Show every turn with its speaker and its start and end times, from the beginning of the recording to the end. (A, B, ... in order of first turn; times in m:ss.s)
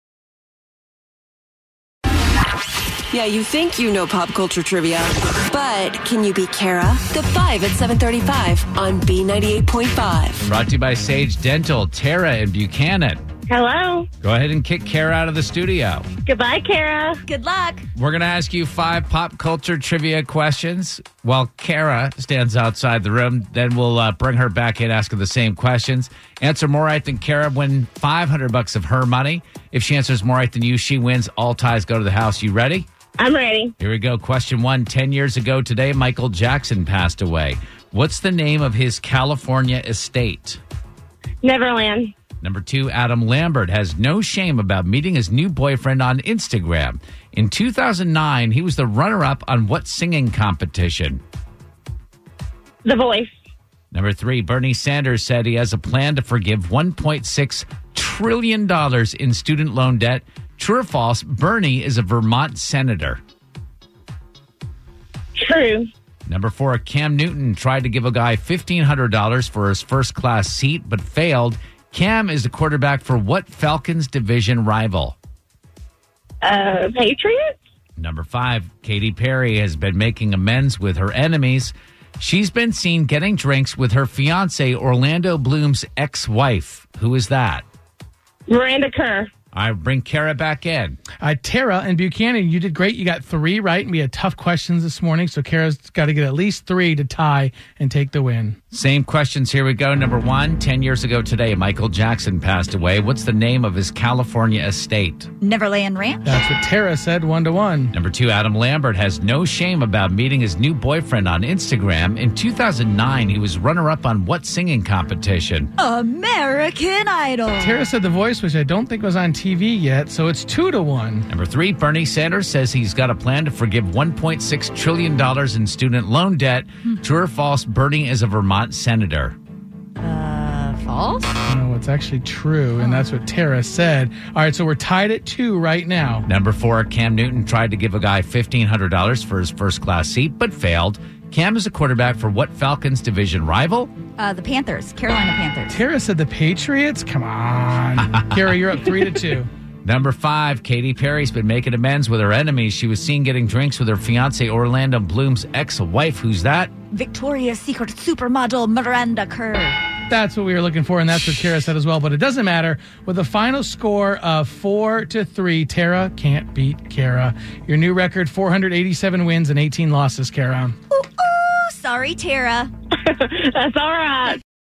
0:03.1-0:10.5 A
0:10.4-0:13.2 B
0:13.5-0:14.1 C
0:14.2-0:16.1 B
0:16.3-0:17.2 C
0:17.3-0:17.9 D
0:18.0-0:32.9 B
0:33.2-0:33.7 C
0:33.8-0:40.6 B
0:41.4-0:42.1 C
0:42.4-0:51.2 B
0:52.8-0:53.3 C
0:53.9-1:03.2 B
1:05.4-1:05.9 C
1:06.3-1:15.2 B
1:16.4-1:17.5 C
1:18.0-1:27.6 B
1:28.5-1:29.3 C
1:29.5-1:31.0 B
1:31.2-1:38.6 E
1:38.7-1:45.3 B
1:45.4-1:46.2 D
1:46.2-1:47.9 E
1:47.9-1:55.7 B
1:55.8-1:57.8 D
1:57.6-2:01.3 E
2:01.3-2:09.4 B
2:10.0-2:11.3 D
2:11.5-2:16.3 E
2:16.3-2:23.9 B
2:24.2-2:25.8 D
2:25.7-2:29.5 E
2:29.8-2:36.7 B
2:36.9-2:39.8 D
2:40.1-2:50.8 E
2:50.9-2:52.7 D
2:53.0-2:54.4 C